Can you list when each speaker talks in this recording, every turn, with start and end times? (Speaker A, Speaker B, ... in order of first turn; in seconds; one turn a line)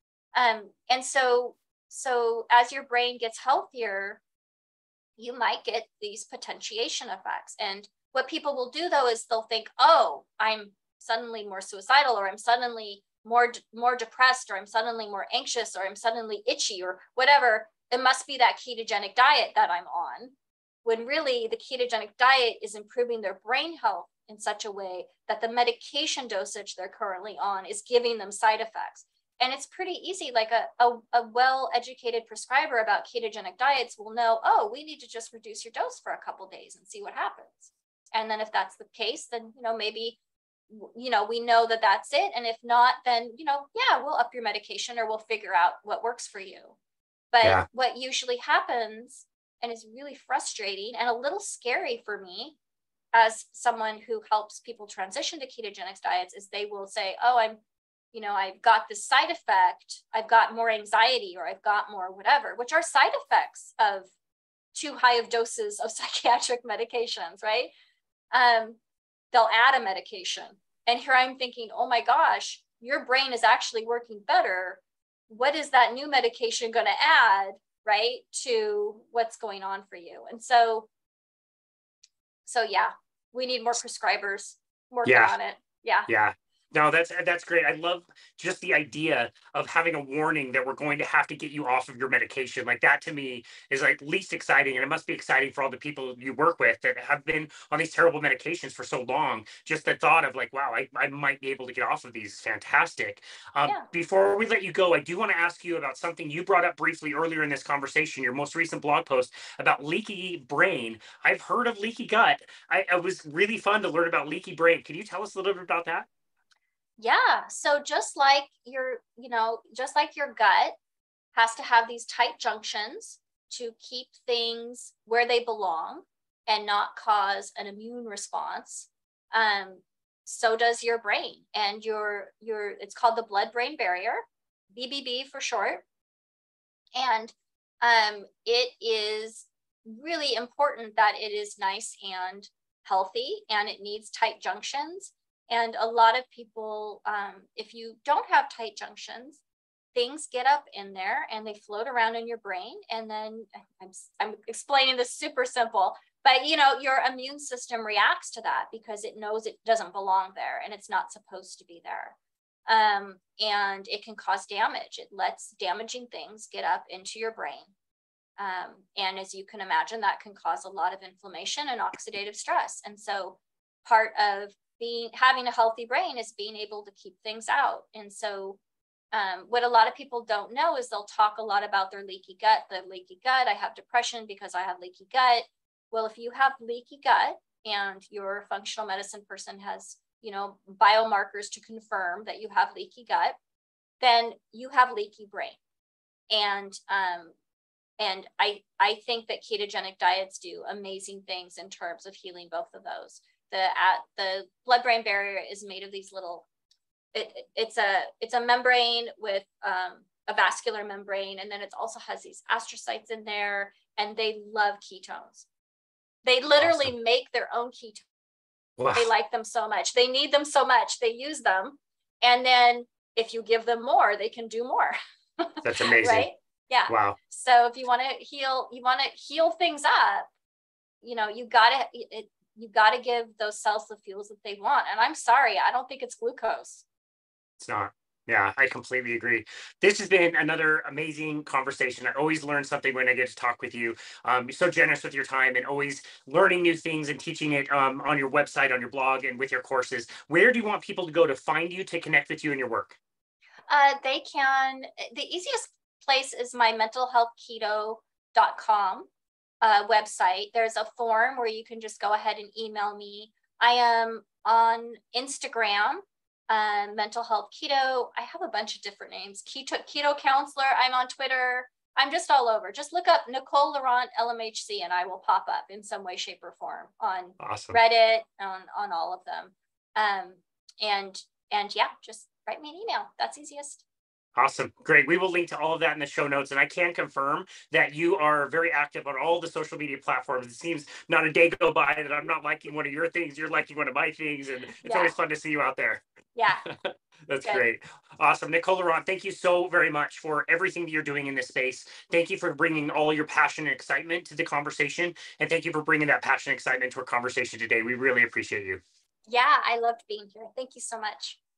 Speaker A: 0.3-4.2
Speaker A: 5.2-20.3
Speaker A: 20.8-40.2
Speaker A: 40.7-46.8
Speaker A: 47.3-52.6
Speaker A: 53.1-57.6
Speaker A: 58.1-64.1
Speaker A: 64.7-67.7
Speaker A: 68.3-68.8
Speaker A: 69.3-80.9
Speaker A: 82.5-86.1
Speaker B: 85.0-85.3
Speaker B: 86.1-116.1
Speaker A: 117.0-120.8
Speaker A: 121.3-135.8
Speaker A: 136.9-149.4
Speaker A: 149.9-162.2
Speaker A: 162.7-167.7
Speaker A: 168.4-178.6
Speaker A: 179.1-193.4
Speaker A: 194.0-195.6
Speaker A: 196.3-197.3
Speaker A: 198.0-206.4
Speaker A: 207.1-215.4
Speaker A: 216.2-218.0
Speaker B: 216.6-216.9
Speaker B: 218.8-219.1
Speaker A: 218.9-230.3
Speaker B: 225.6-226.3
Speaker B: 226.9-227.2
Speaker A: 231.0-236.8
Speaker B: 237.6-253.0
Speaker A: 253.7-259.1
Speaker A: 259.6-283.8
Speaker B: 277.4-277.8
Speaker B: 284.4-296.0
Speaker A: 294.8-295.1
Speaker A: 296.3-296.6
Speaker B: 296.6-308.8
Speaker A: 309.3-311.4